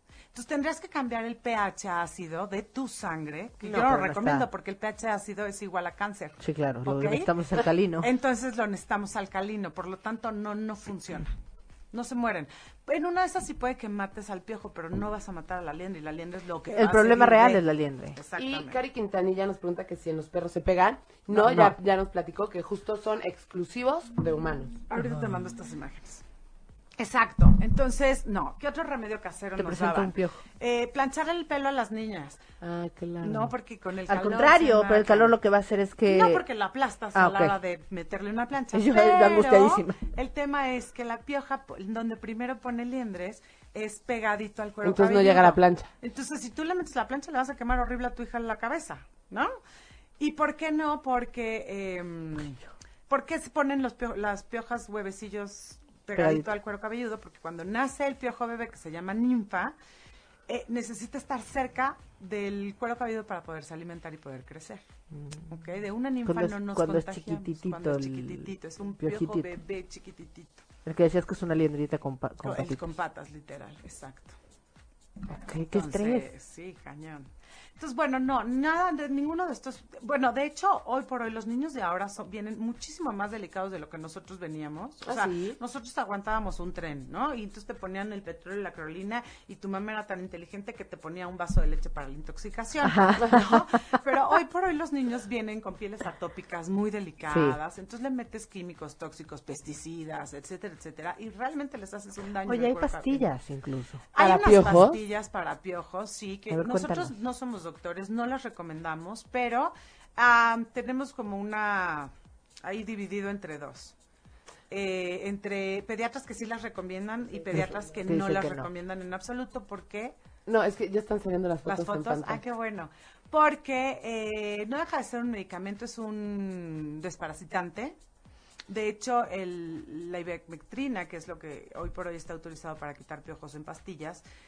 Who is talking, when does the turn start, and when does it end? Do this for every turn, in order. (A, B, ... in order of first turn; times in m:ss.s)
0:00.3-0:07.3 A
0:03.6-0:04.5 B
0:06.4-0:08.1 B
0:08.0-0:11.3 A
0:11.9-0:17.6 A
0:16.7-0:18.2 B
0:18.1-0:18.8 A
0:18.4-0:24.8 C
0:21.3-0:21.7 B
0:24.9-0:26.2 A
0:27.0-0:32.4 A
0:29.6-0:30.4 B
0:32.6-0:33.5 C
0:33.2-0:35.3 A
0:34.1-0:36.4 B
0:36.0-0:49.5 A
0:37.1-0:37.6 B
0:38.7-0:40.0 B
0:44.8-0:45.9 C
0:50.2-0:59.8 A
0:56.1-0:56.5 B
1:00.5-1:04.8 A
1:05.1-1:05.4 B
1:05.5-1:10.6 A
1:06.2-1:09.5 B
1:10.9-1:12.8 B
1:12.4-1:14.4 A
1:15.3-1:16.3 B
1:15.7-1:43.2 A
1:25.1-1:25.6 C
1:32.8-1:33.8 B
1:37.3-1:37.6 B
1:42.5-1:44.1 B
1:44.1-1:52.1 A
1:44.2-1:45.0 C
1:46.5-1:47.1 B
1:52.6-1:53.9 A
1:54.7-2:00.2 A
1:57.5-1:57.8 C
1:57.5-1:58.7 B
2:00.5-2:02.4 C
2:01.6-2:08.0 A
2:08.7-2:14.2 A